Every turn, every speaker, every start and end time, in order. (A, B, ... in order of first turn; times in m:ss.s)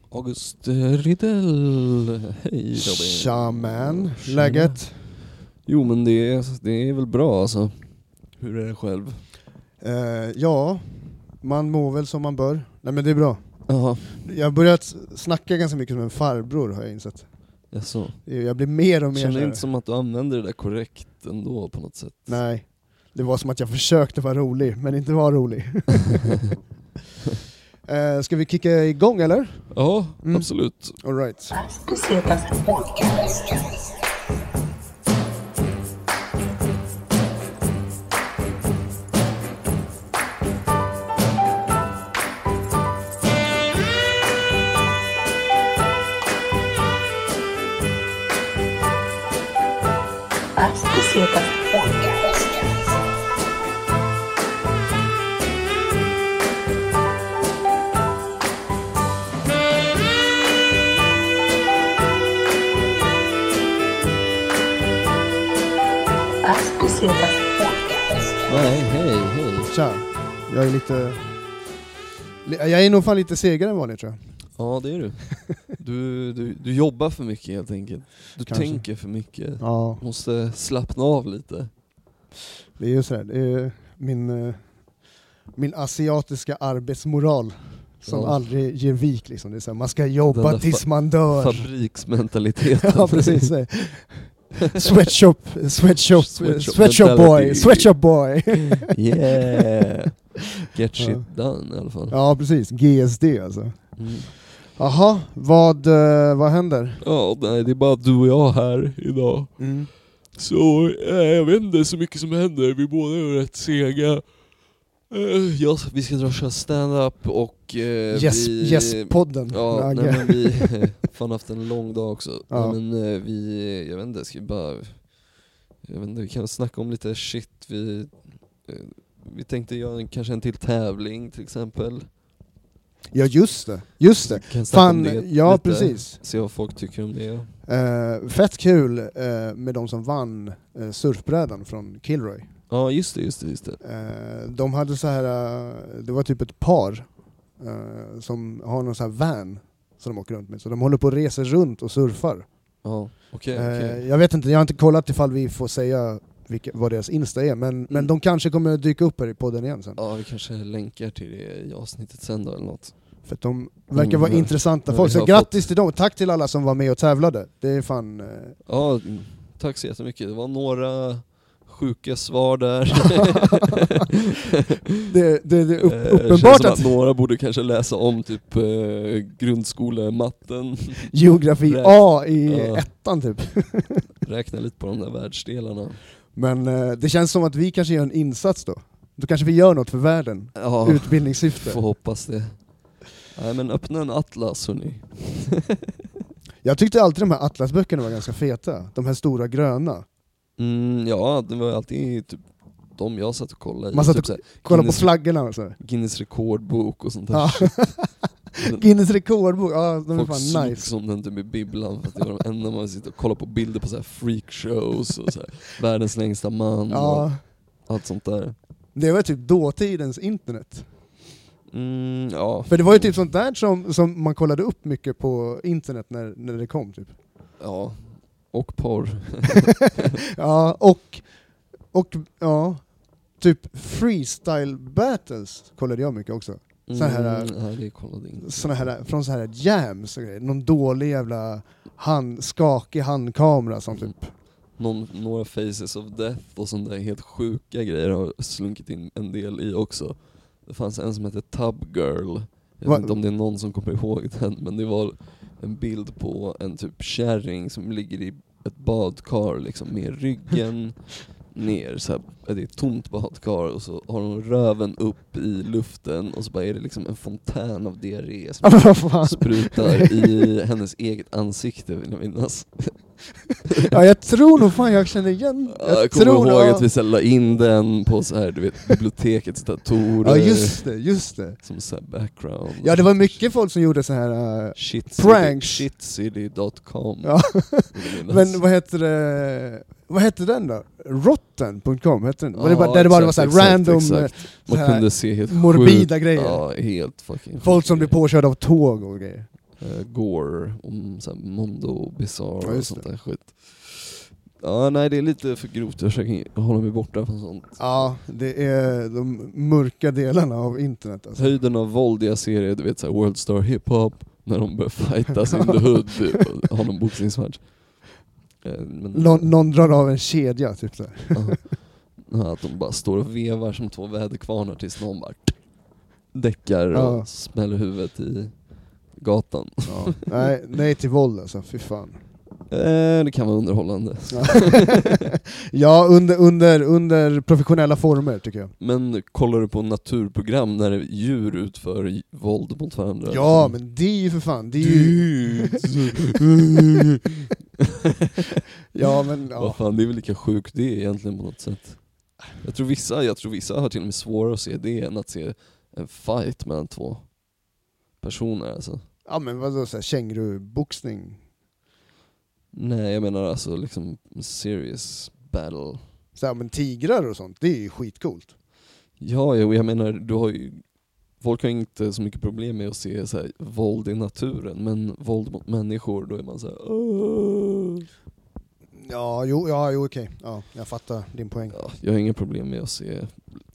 0:00.1-0:04.8 A
0:02.7-0:05.1 B
0:05.6-0:09.2 A
0:09.8-0:13.4 B
0:13.7-0:14.2 A
0:14.1-0:17.3 B
0:17.7-0:18.2 A
0:18.2-0:19.6 B
0:19.1-0:22.4 A
0:22.3-0:26.5 B
0:27.8-0:31.6 B
0:29.7-0:31.0 A
0:31.5-0:34.0 C
0:50.5-0:52.9 C
1:06.4-1:08.7 C
1:08.5-1:09.7 A
1:09.7-1:11.3 B
1:12.4-1:14.4 B
1:14.6-1:21.7 A
1:18.4-1:18.9 B
1:19.6-1:20.0 B
1:22.8-1:24.8 B
1:25.6-1:31.7 B
1:28.0-1:28.4 A
1:30.3-1:33.5 A
1:32.8-1:38.9 B
1:34.7-1:35.1 A
1:36.0-1:37.9 A
1:38.8-1:42.2 A
1:41.0-1:41.3 B
1:42.1-1:47.0 B
1:44.0-1:44.3 A
1:47.0-1:49.7 A
1:49.6-1:49.9 B
1:50.3-1:54.3 A
1:55.1-2:05.1 A
1:58.1-2:01.0 B
2:02.5-2:02.8 B
2:05.8-2:12.1 A
2:13.1-2:16.2 B
2:14.2-2:17.5 A
2:17.6-2:22.5 B
2:22.7-2:23.8 A
2:23.8-2:32.5 B
2:32.8-2:34.0 A
2:33.5-2:40.0 B
2:40.0-2:43.0 A
2:43.2-2:48.6 B
2:43.9-2:45.6 A
2:48.6-2:54.1 A
2:55.0-2:57.0 B
2:55.8-3:02.9 A
3:01.1-3:04.0 B
3:04.2-3:06.0 A
3:06.3-3:11.8 B
3:10.6-3:12.7 A
3:13.2-3:15.8 A
3:16.6-3:20.0 B
3:20.6-3:25.1 A
3:23.9-3:25.8 B
3:25.8-3:28.0 A
3:27.3-3:30.9 B
3:28.6-3:28.8 A
3:30.1-3:38.6 A
3:36.9-3:37.4 B
3:38.9-3:40.9 B
3:41.7-3:43.1 A
3:42.7-3:47.2 B
3:47.6-3:50.0 A
3:50.0-3:51.3 B
3:51.9-3:57.6 B
3:56.9-3:58.9 A
3:58.4-4:04.3 B
4:04.7-4:33.9 A
4:12.8-4:13.1 B
4:28.6-4:30.4 B
4:33.8-4:36.9 B
4:35.7-4:40.8 A
4:40.2-4:41.6 B
4:41.6-4:43.4 A
4:42.8-4:45.8 B
4:44.7-4:48.6 A
4:47.2-4:56.7 B
4:52.5-4:58.2 A
4:57.6-4:59.5 B
4:59.8-5:08.1 A
5:02.6-5:03.0 B
5:07.8-5:11.5 B
5:11.4-5:18.1 A
5:15.6-5:16.2 B
5:18.6-5:19.5 A
5:19.1-5:21.6 B
5:21.3-5:25.6 A
5:26.3-5:28.6 A
5:26.9-5:27.3 B
5:29.1-5:30.2 A
5:29.8-5:32.2 B
5:32.7-5:35.3 A
5:34.3-5:38.7 B
5:38.8-5:43.8 A
5:43.3-5:45.9 B
5:44.8-5:47.4 A
5:48.9-5:49.8 B
5:49.6-5:57.3 A
5:58.2-5:59.0 A
5:59.2-6:01.4 B
6:02.7-6:06.0 A
6:06.4-6:08.5 B
6:09.2-6:10.8 A
6:11.4-6:18.0 A
6:19.0-6:21.8 B
6:21.7-6:23.6 A